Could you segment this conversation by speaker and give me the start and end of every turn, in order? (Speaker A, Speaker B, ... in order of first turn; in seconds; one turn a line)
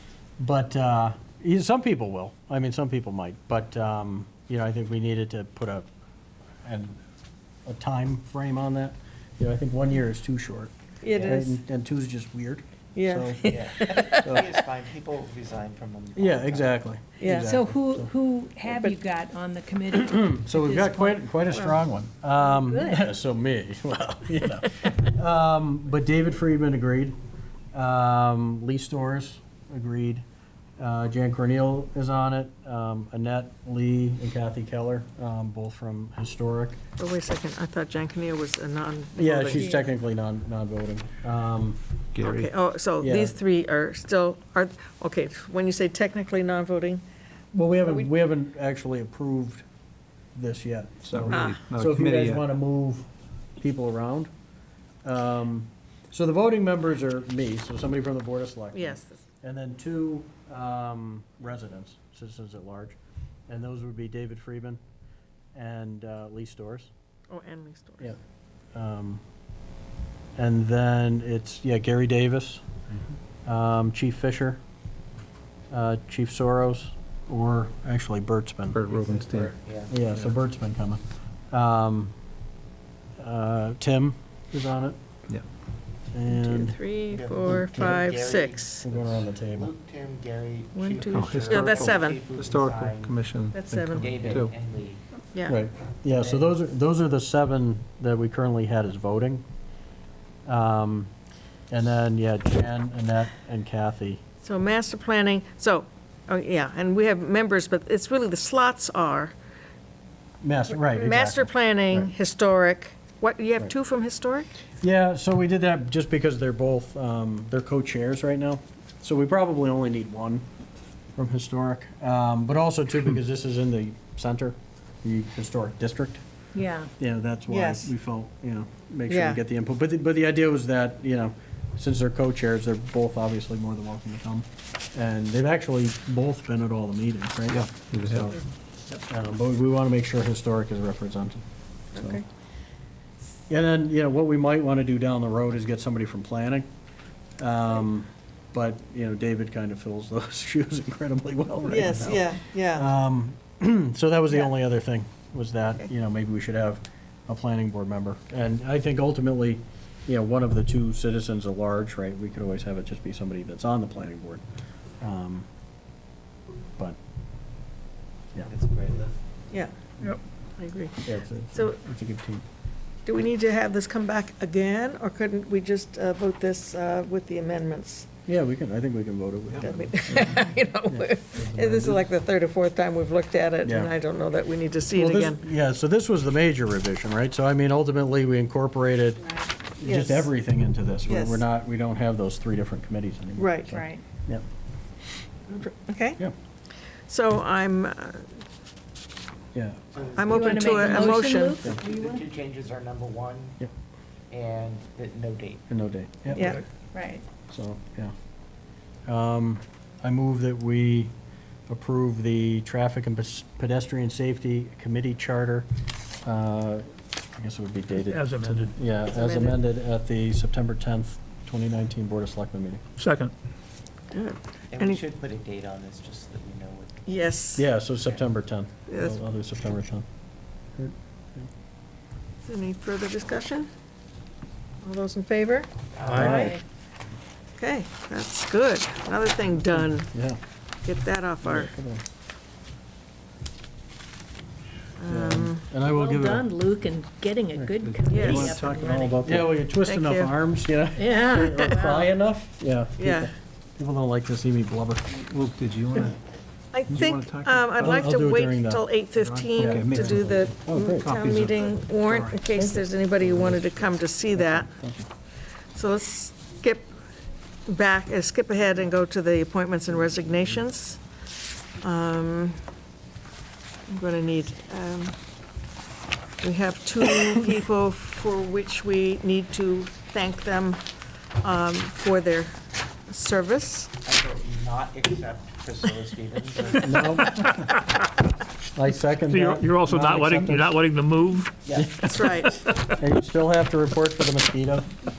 Speaker A: 0.4-5.9
Speaker A: 6.6-7.0
Speaker A: 7.7-14.4
Speaker B: 11.0-11.6
Speaker B: 12.9-14.5
Speaker C: 13.4-16.8
Speaker A: 16.1-18.1
Speaker B: 17.2-17.5
Speaker D: 17.3-21.2
Speaker B: 18.6-18.9
Speaker A: 19.9-27.1
Speaker D: 22.4-23.1
Speaker A: 27.7-30.2
Speaker A: 30.8-36.8
Speaker B: 37.0-39.8
Speaker A: 39.1-41.8
Speaker E: 42.1-42.5
Speaker B: 42.2-47.0
Speaker A: 43.0-43.4
Speaker A: 47.5-49.6
Speaker B: 47.7-48.1
Speaker A: 50.3-53.1
Speaker E: 51.0-52.5
Speaker B: 51.3-51.6
Speaker A: 53.6-54.3
Speaker A: 55.0-63.0
Speaker B: 58.7-59.2
Speaker A: 63.5-64.8
Speaker A: 65.5-66.9
Speaker B: 67.3-68.2
Speaker A: 68.7-69.2
Speaker A: 70.4-72.6
Speaker A: 73.5-74.6
Speaker A: 75.7-78.8
Speaker E: 78.7-79.5
Speaker C: 79.0-79.9
Speaker A: 79.9-82.1
Speaker A: 83.2-85.0
Speaker A: 86.1-86.8
Speaker B: 86.3-88.8
Speaker C: 87.1-93.2
Speaker A: 88.8-89.7
Speaker B: 90.8-92.2
Speaker E: 91.1-94.5
Speaker B: 93.5-94.3
Speaker C: 93.9-95.0
Speaker A: 95.4-99.4
Speaker C: 96.1-96.4
Speaker A: 100.5-101.1
Speaker A: 101.7-104.2
Speaker B: 104.4-109.3
Speaker A: 110.4-112.1
Speaker B: 110.7-114.5
Speaker A: 114.8-120.5
Speaker A: 121.2-126.2
Speaker D: 126.5-126.9
Speaker A: 127.0-138.4
Speaker B: 127.5-127.9
Speaker B: 129.1-129.4
Speaker E: 137.5-138.3
Speaker A: 139.0-141.4
Speaker B: 141.9-142.2
Speaker A: 141.9-142.2
Speaker A: 143.5-146.7
Speaker A: 147.4-164.4
Speaker B: 151.7-152.8
Speaker A: 165.0-165.5
Speaker C: 168.4-169.2
Speaker B: 170.6-171.8
Speaker A: 171.0-172.4
Speaker B: 173.1-178.1
Speaker A: 178.3-182.0
Speaker B: 179.6-185.4
Speaker A: 183.6-183.9
Speaker A: 184.9-194.4
Speaker B: 189.8-190.3
Speaker B: 191.1-191.4
Speaker B: 193.4-193.8
Speaker D: 193.7-194.0
Speaker B: 195.5-196.2
Speaker B: 197.1-198.3
Speaker A: 199.5-199.8
Speaker C: 199.9-203.6
Speaker B: 200.2-201.6
Speaker D: 200.3-202.2
Speaker C: 204.3-205.6
Speaker A: 205.7-206.6
Speaker B: 206.3-206.6
Speaker D: 206.9-207.2
Speaker A: 207.5-208.1
Speaker A: 209.1-211.1
Speaker A: 211.7-215.7
Speaker A: 216.2-222.8
Speaker F: 218.0-218.8
Speaker B: 219.1-219.6
Speaker F: 223.0-223.3
Speaker B: 224.1-225.0
Speaker C: 224.7-227.2
Speaker B: 227.1-227.6
Speaker A: 227.5-230.1
Speaker B: 228.9-229.2
Speaker A: 230.8-231.5
Speaker B: 232.4-233.7
Speaker B: 234.8-236.5
Speaker C: 235.9-236.5
Speaker D: 236.1-236.6
Speaker A: 236.1-236.5
Speaker B: 237.6-240.1
Speaker A: 240.1-240.4
Speaker B: 240.8-241.7
Speaker A: 241.4-242.0
Speaker B: 245.0-245.7
Speaker A: 245.1-246.5
Speaker D: 245.8-249.3
Speaker A: 247.5-248.5
Speaker E: 247.8-249.5
Speaker B: 248.1-248.6
Speaker A: 249.2-255.1
Speaker B: 249.7-250.3
Speaker D: 250.9-252.0
Speaker B: 251.4-252.0
Speaker B: 253.0-253.3
Speaker E: 255.1-256.2
Speaker B: 256.7-264.7
Speaker E: 256.9-258.1
Speaker A: 257.8-258.9
Speaker E: 259.1-262.5
Speaker A: 259.6-261.1
Speaker A: 263.2-265.1
Speaker B: 265.7-266.9
Speaker B: 267.7-271.0
Speaker B: 271.8-272.6
Speaker B: 273.9-275.1
Speaker B: 276.4-280.8
Speaker B: 281.4-282.5
Speaker B: 283.1-283.9
Speaker C: 284.0-287.4
Speaker A: 286.7-287.5
Speaker F: 287.5-287.8
Speaker A: 288.7-290.8
Speaker F: 289.2-291.6
Speaker C: 291.6-292.1
Speaker A: 291.7-294.9
Speaker B: 292.1-292.9